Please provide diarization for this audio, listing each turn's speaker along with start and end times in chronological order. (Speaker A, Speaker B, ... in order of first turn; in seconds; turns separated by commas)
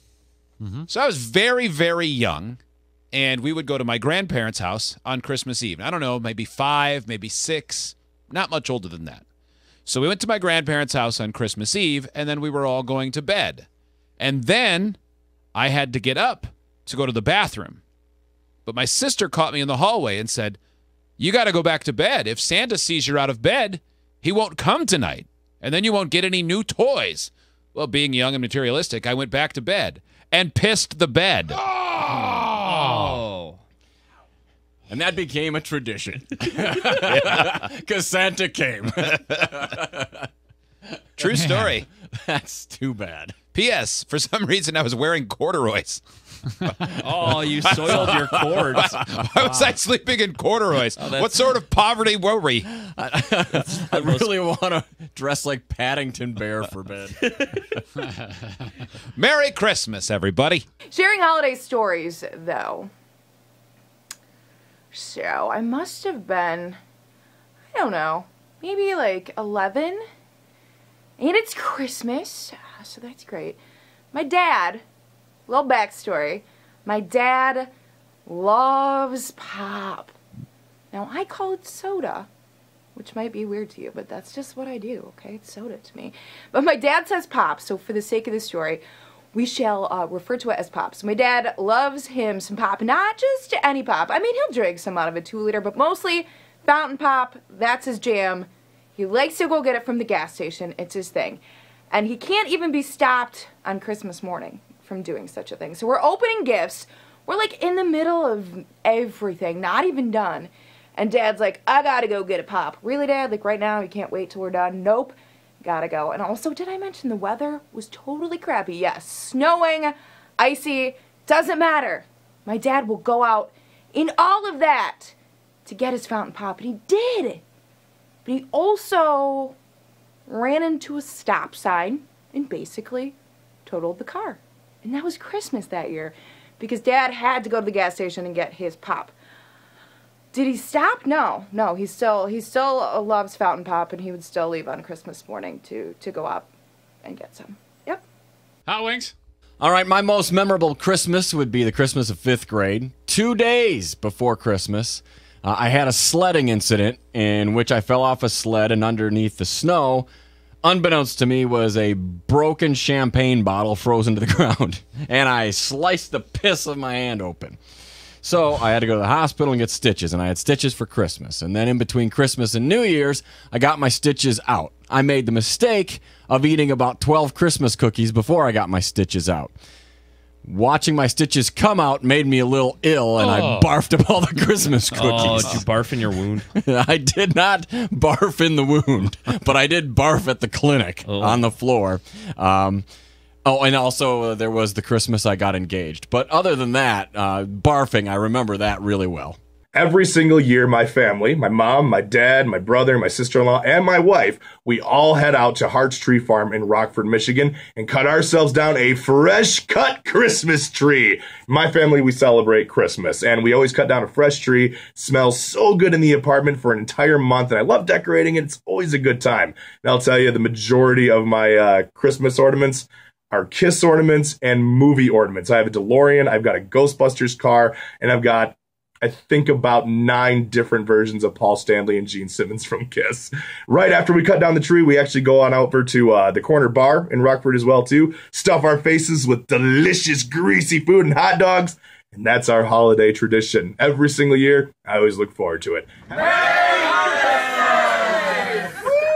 Speaker A: 0.9-2.6, Speaker A: 3.1-9.2, Speaker A: 9.8-13.7, Speaker A: 14.2-15.0, Speaker A: 15.5-17.8, Speaker A: 18.6-20.6, Speaker A: 21.2-33.2, Speaker B: 32.7-33.6, Speaker C: 34.9-40.3, Speaker C: 40.9-43.4, Speaker A: 41.2-41.9, Speaker A: 43.5-52.7, Speaker B: 47.0-49.0, Speaker C: 47.8-48.2, Speaker B: 51.0-51.4, Speaker C: 52.7-57.7, Speaker B: 53.8-54.2, Speaker A: 59.1-60.6, Speaker D: 60.9-62.9, Speaker D: 64.9-66.8, Speaker D: 67.7-70.0, Speaker D: 71.2-73.6, Speaker D: 74.1-74.8, Speaker D: 75.5-77.7, Speaker D: 78.2-80.2, Speaker D: 80.9-82.3, Speaker D: 82.9-127.4, Speaker D: 128.2-129.6, Speaker D: 130.3-133.1, Speaker D: 133.7-139.1, Speaker D: 140.3-146.5, Speaker D: 147.0-148.0, Speaker B: 148.7-149.1, Speaker C: 149.6-160.1, Speaker C: 160.6-167.6, Speaker C: 168.2-179.5, Speaker C: 180.4-185.7, Speaker B: 183.2-183.7, Speaker B: 184.9-186.4, Speaker C: 186.5-192.8, Speaker B: 191.1-191.4, Speaker C: 193.4-199.4, Speaker E: 199.7-246.7